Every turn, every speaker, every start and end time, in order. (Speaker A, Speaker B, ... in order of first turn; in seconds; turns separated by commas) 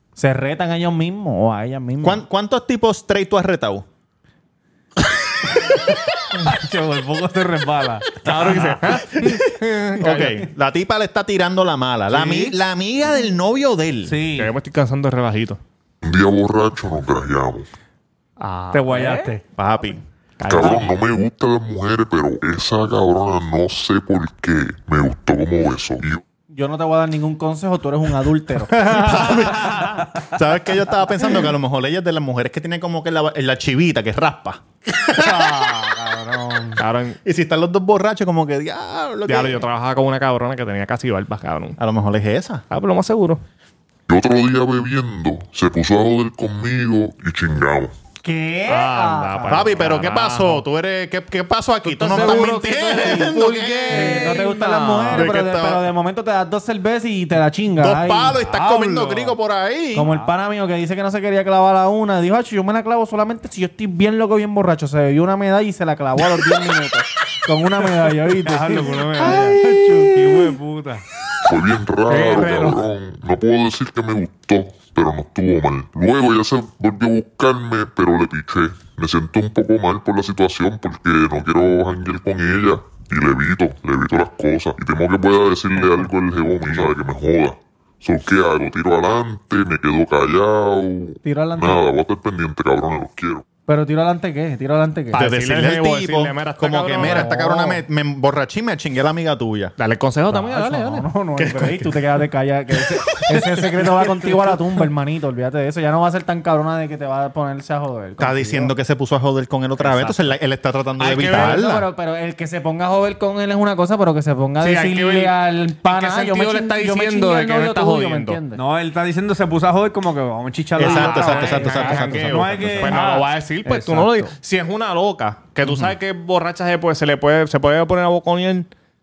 Speaker A: 0.2-2.2, Speaker B: 2.0-3.9, Speaker C: 6.3-9.0, Speaker D: 8.2-10.4, Speaker B: 10.0-14.2, Speaker C: 12.1-12.6, Speaker C: 14.1-14.5, Speaker D: 14.4-15.6, Speaker E: 16.0-17.7, Speaker D: 18.4-19.0, Speaker C: 18.7-19.4, Speaker A: 18.9-19.3, Speaker B: 19.6-20.0, Speaker D: 20.4-20.9, Speaker E: 20.4-26.2, Speaker A: 26.5-30.1, Speaker B: 28.8-35.6, Speaker C: 35.1-36.8, Speaker D: 36.8-37.2, Speaker B: 37.2-39.6, Speaker D: 39.3-41.8, Speaker B: 41.8-42.6, Speaker D: 42.7-43.4, Speaker E: 44.1-47.9, Speaker A: 48.2-49.7, Speaker D: 48.7-50.6, Speaker B: 49.5-54.4, Speaker D: 51.9-55.3, Speaker A: 52.1-58.4, Speaker B: 55.1-55.9, Speaker B: 57.8-60.1, Speaker C: 58.4-59.4, Speaker A: 59.9-70.4, Speaker C: 60.0-60.3, Speaker C: 68.3-71.0, Speaker E: 71.5-93.4, Speaker D: 72.1-72.8, Speaker A: 91.2-91.8, Speaker A: 93.7-95.2, Speaker D: 95.1-97.8, Speaker B: 95.2-99.7, Speaker A: 97.0-97.5, Speaker D: 99.8-101.1, Speaker A: 100.3-108.7, Speaker B: 101.4-102.0, Speaker B: 108.2-111.8, Speaker D: 109.8-110.3, Speaker D: 111.0-111.7, Speaker A: 111.3-118.6, Speaker D: 114.6-118.4, Speaker C: 118.5-124.3, Speaker B: 120.8-122.1, Speaker D: 120.8-128.7, Speaker A: 121.3-123.1, Speaker B: 125.7-125.9